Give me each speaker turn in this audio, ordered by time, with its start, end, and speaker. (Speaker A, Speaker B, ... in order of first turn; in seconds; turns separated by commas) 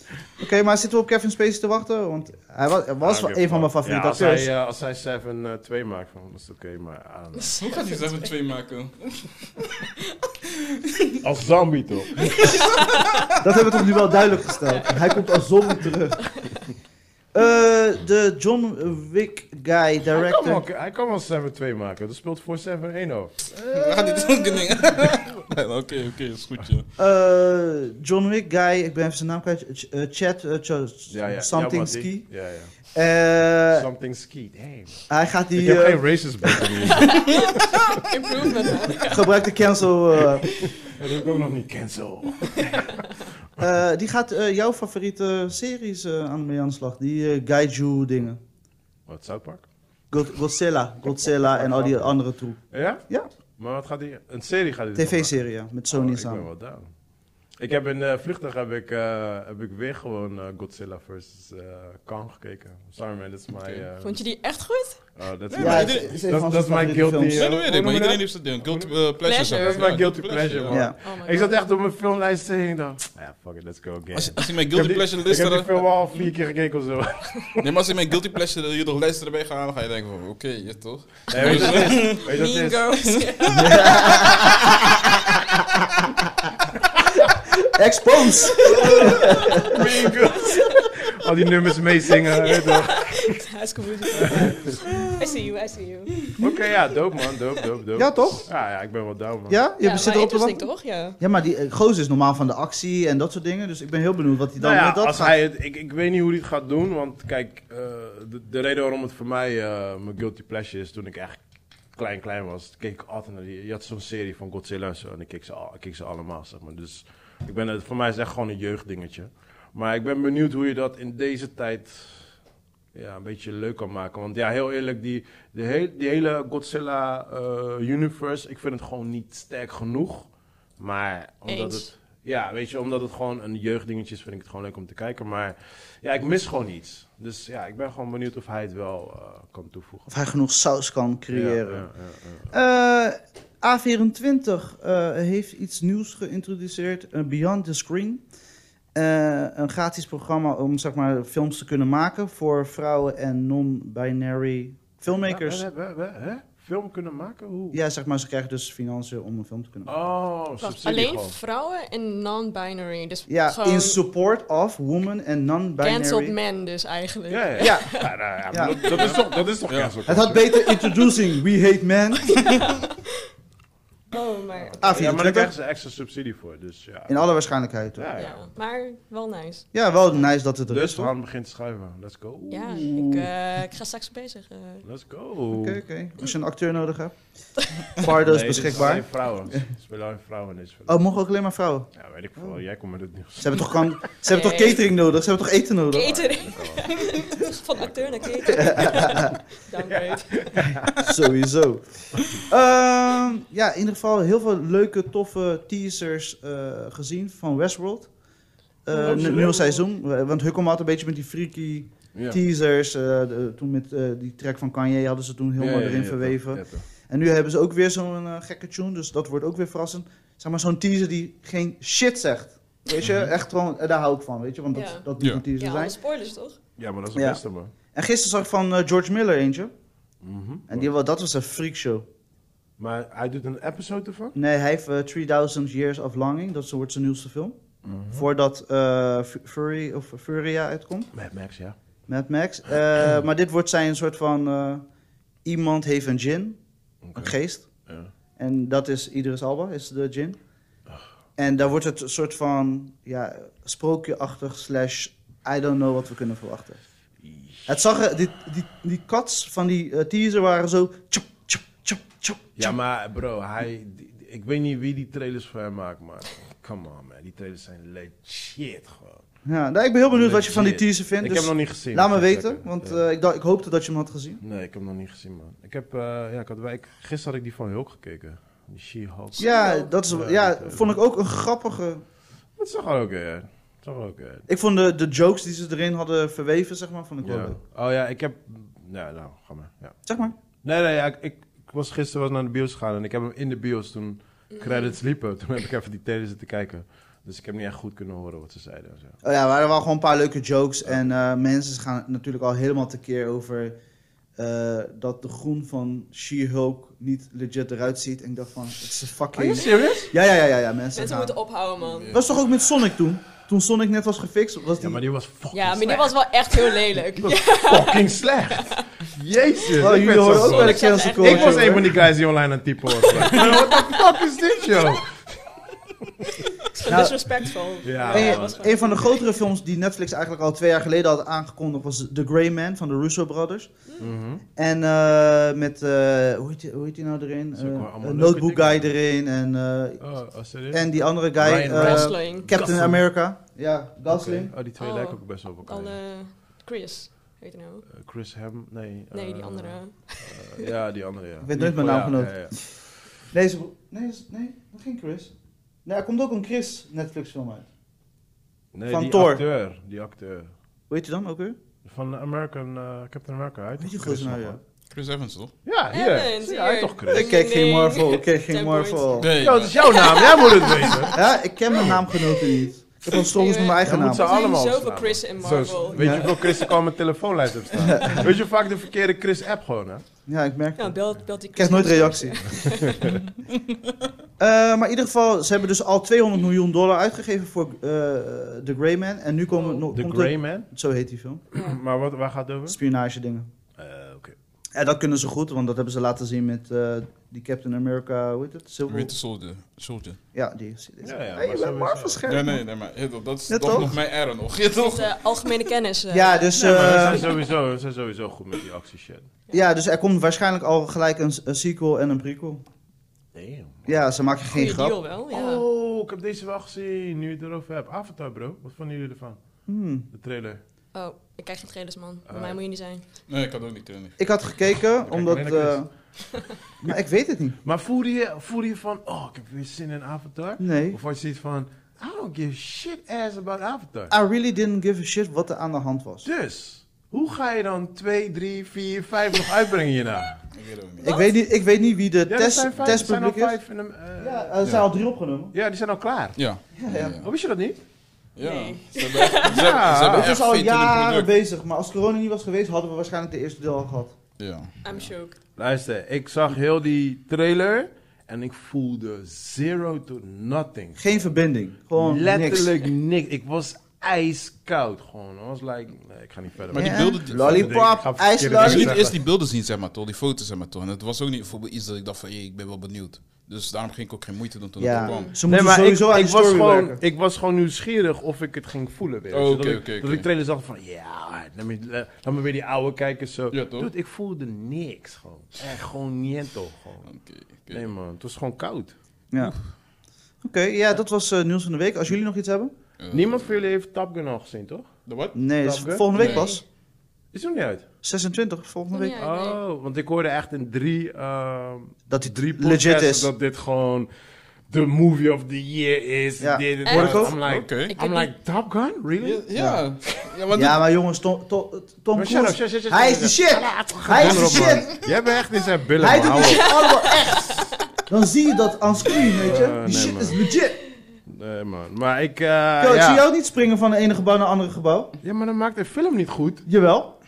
Speaker A: 0.4-4.5, Speaker B: 3.0-7.6, Speaker C: 7.4-8.3, Speaker D: 7.6-9.7, Speaker B: 11.2-12.7, Speaker C: 12.4-13.3, Speaker A: 13.4-16.3, Speaker C: 14.7-15.2, Speaker A: 17.3-20.6, Speaker B: 20.1-24.6, Speaker D: 23.7-26.9, Speaker A: 27.0-32.3, Speaker B: 31.1-32.7, Speaker A: 32.9-33.9, Speaker B: 33.7-35.0, Speaker A: 35.1-36.8, Speaker B: 35.6-37.8, Speaker C: 37.0-39.3, Speaker A: 39.0-40.7, Speaker B: 40.8-43.0, Speaker A: 43.6-48.4, Speaker B: 49.0-49.7, Speaker A: 50.1-53.3, Speaker B: 51.4-52.1, Speaker B: 52.7-53.0, Speaker B: 53.5-55.4, Speaker A: 54.9-56.5, Speaker B: 55.9-56.9, Speaker B: 57.5-64.2, Speaker D: 63.6-63.8, Speaker C: 64.0-65.0, Speaker B: 65.1-68.9, Speaker D: 65.5-66.2, Speaker A: 65.5-67.5, Speaker D: 67.3-70.9, Speaker C: 69.2-70.0, Speaker B: 69.5-77.7, Speaker A: 70.7-70.9, Speaker C: 71.0-71.6, Speaker D: 74.1-75.8, Speaker D: 77.6-82.2, Speaker B: 81.3-82.8, Speaker C: 81.4-84.3, Speaker A: 83.5-84.6, Speaker A: 87.6-90.0, Speaker B: 88.6-93.2, Speaker C: 88.7-90.8, Speaker C: 92.5-96.3, Speaker B: 94.2-94.6, Speaker B: 96.4-99.6, Speaker A: 97.9-98.5, Speaker A: 99.5-105.3, Speaker C: 99.8-101.2, Speaker B: 104.6-111.4, Speaker B: 111.9-122.3, Speaker B: 122.9-140.1, Speaker C: 131.5-131.9, Speaker A: 140.1-141.9, Speaker B: 141.3-142.5, Speaker A: 142.5-148.2, Speaker A: 148.9-155.7, Speaker B: 155.1-157.8, Speaker A: 157.7-160.0, Speaker B: 159.8-161.3, Speaker C: 160.6-164.0, Speaker A: 163.3-166.3, Speaker C: 165.8-168.1, Speaker B: 167.3-170.4, Speaker A: 167.6-168.8, Speaker D: 168.9-170.0, Speaker A: 170.1-172.4, Speaker C: 170.6-171.1, Speaker C: 172.4-173.0, Speaker C: 174.1-175.1, Speaker B: 174.6-177.2, Speaker A: 174.8-175.5, Speaker A: 177.1-178.1, Speaker B: 177.9-178.4, Speaker C: 178.2-179.7, Speaker A: 179.7-181.1, Speaker B: 180.7-182.8, Speaker C: 182.5-184.8, Speaker A: 182.8-183.3, Speaker B: 184.8-185.8, Speaker A: 185.5-187.2, Speaker A: 187.9-189.6, Speaker B: 188.1-191.0, Speaker A: 190.9-192.6, Speaker B: 191.9-194.0, Speaker A: 193.4-196.3, Speaker C: 194.2-194.8, Speaker C: 195.9-200.6, Speaker B: 196.1-197.2, Speaker B: 197.7-199.2, Speaker A: 198.4-199.3, Speaker B: 199.9-201.0, Speaker A: 200.9-208.1, Speaker A: 208.8-226.0, Speaker C: 208.9-209.6, Speaker B: 208.9-209.8, Speaker B: 212.1-212.4, Speaker B: 215.6-216.8, Speaker B: 223.0-223.3, Speaker C: 224.7-226.6, Speaker D: 225.2-225.4, Speaker B: 226.8-227.7, Speaker A: 227.1-227.4, Speaker A: 227.9-229.7, Speaker B: 230.2-230.9, Speaker A: 230.7-232.1, Speaker B: 232.8-234.3, Speaker A: 234.3-237.6, Speaker B: 237.8-238.3, Speaker A: 238.1-241.1, Speaker B: 241.1-241.8, Speaker A: 242.1-244.8, Speaker A: 245.4-246.6, Speaker B: 247.0-247.3, Speaker A: 247.1-247.8, Speaker A: 248.4-250.4, Speaker A: 251.4-256.8, Speaker B: 257.2-257.7, Speaker A: 257.6-262.8, Speaker B: 262.6-269.2, Speaker A: 269.4-274.4, Speaker B: 270.1-273.0, Speaker B: 274.4-279.5, Speaker C: 279.4-279.9, Speaker A: 279.4-282.0, Speaker B: 280.1-280.9, Speaker B: 282.6-284.4, Speaker A: 284.5-287.6, Speaker B: 287.2-290.0, Speaker A: 290.0-290.3, Speaker B: 290.6-299.2, Speaker C: 294.5-294.9, Speaker A: 299.2-303.8, Speaker A: 304.4-311.4, Speaker B: 309.3-310.1, Speaker C: 310.9-312.2, Speaker D: 311.8-312.3, Speaker A: 312.1-315.0, Speaker B: 314.8-325.4, Speaker C: 315.5-318.8, Speaker A: 319.8-322.0, Speaker C: 320.2-321.7, Speaker C: 323.0-324.0, Speaker C: 326.6-329.3, Speaker A: 326.9-327.4, Speaker B: 327.8-328.7, Speaker A: 328.1-333.8, Speaker B: 334.0-334.4, Speaker A: 334.6-340.0, Speaker B: 337.6-338.9, Speaker B: 340.0-343.0, Speaker A: 340.7-344.5, Speaker C: 341.7-342.6, Speaker B: 344.1-346.0, Speaker C: 344.8-347.8, Speaker B: 347.9-352.9, Speaker C: 349.1-350.6, Speaker A: 351.4-352.8, Speaker A: 353.3-355.3, Speaker A: 355.8-357.7, Speaker B: 358.7-360.5, Speaker A: 358.9-359.4, Speaker A: 360.9-361.6, Speaker B: 361.8-364.6, Speaker A: 363.8-364.6, Speaker D: 364.9-365.5, Speaker B: 365.6-367.3, Speaker C: 365.9-371.2, Speaker A: 367.1-369.3, Speaker D: 369.2-370.0, Speaker B: 369.4-371.2, Speaker A: 371.1-374.4, Speaker C: 373.1-376.7, Speaker B: 373.8-380.0, Speaker A: 375.9-376.3, Speaker A: 377.8-378.3, Speaker C: 377.9-378.1, Speaker A: 380.3-382.8, Speaker C: 380.8-383.1, Speaker A: 384.4-391.5, Speaker B: 389.9-390.7, Speaker B: 391.5-392.8, Speaker A: 392.7-393.5, Speaker B: 393.8-394.4, Speaker A: 394.7-399.1, Speaker D: 398.9-400.2, Speaker A: 400.3-402.6, Speaker B: 401.0-402.2, Speaker D: 402.2-405.5, Speaker A: 403.5-403.9, Speaker C: 404.8-406.5, Speaker A: 406.1-407.3, Speaker B: 406.5-409.3, Speaker A: 409.5-412.6, Speaker B: 413.3-414.0, Speaker A: 413.9-415.0, Speaker C: 414.5-415.6, Speaker B: 415.3-419.4, Speaker A: 419.7-420.1, Speaker B: 420.1-420.6, Speaker C: 420.9-423.0, Speaker B: 422.3-422.6, Speaker D: 423.3-424.2, Speaker A: 424.2-425.9, Speaker B: 425.0-425.9, Speaker A: 426.8-427.6, Speaker B: 427.6-434.1, Speaker A: 430.6-431.0, Speaker A: 434.1-436.3, Speaker B: 436.2-440.4, Speaker D: 440.5-441.1, Speaker C: 441.0-441.3, Speaker A: 441.0-443.6, Speaker B: 442.3-444.6, Speaker A: 444.2-445.5, Speaker B: 445.5-446.4, Speaker D: 446.4-447.3, Speaker A: 446.8-447.1, Speaker B: 447.2-447.8, Speaker D: 448.4-451.3, Speaker C: 448.4-449.6, Speaker B: 449.4-450.3, Speaker A: 450.0-454.1, Speaker D: 454.4-455.0, Speaker C: 454.8-455.4, Speaker B: 455.6-461.0, Speaker A: 460.9-462.7, Speaker B: 461.9-469.2, Speaker D: 466.7-467.9, Speaker A: 466.7-469.0, Speaker D: 468.5-475.3, Speaker A: 474.8-477.0, Speaker C: 475.0-475.3, Speaker B: 475.5-487.1, Speaker D: 479.3-480.2, Speaker D: 483.5-483.9, Speaker D: 487.1-487.9, Speaker B: 487.7-488.9, Speaker A: 490.4-492.7, Speaker D: 493.0-493.4, Speaker B: 493.1-494.9, Speaker D: 495.1-495.4, Speaker A: 495.3-496.6, Speaker B: 495.6-496.4, Speaker D: 496.1-496.5, Speaker C: 496.2-496.6, Speaker B: 497.3-497.9, Speaker A: 498.0-499.2, Speaker C: 498.9-499.6, Speaker B: 499.1-504.1, Speaker A: 502.1-503.3, Speaker B: 504.7-509.4, Speaker A: 506.4-507.4, Speaker C: 506.8-508.3, Speaker D: 507.4-507.9, Speaker D: 509.2-510.8, Speaker A: 509.5-509.8, Speaker A: 510.5-515.0, Speaker B: 512.1-516.8, Speaker D: 514.2-514.8, Speaker A: 516.0-520.8, Speaker C: 516.4-517.7, Speaker B: 519.2-520.4, Speaker B: 521.2-523.2, Speaker A: 522.8-525.1, Speaker B: 525.2-526.6, Speaker A: 526.6-527.1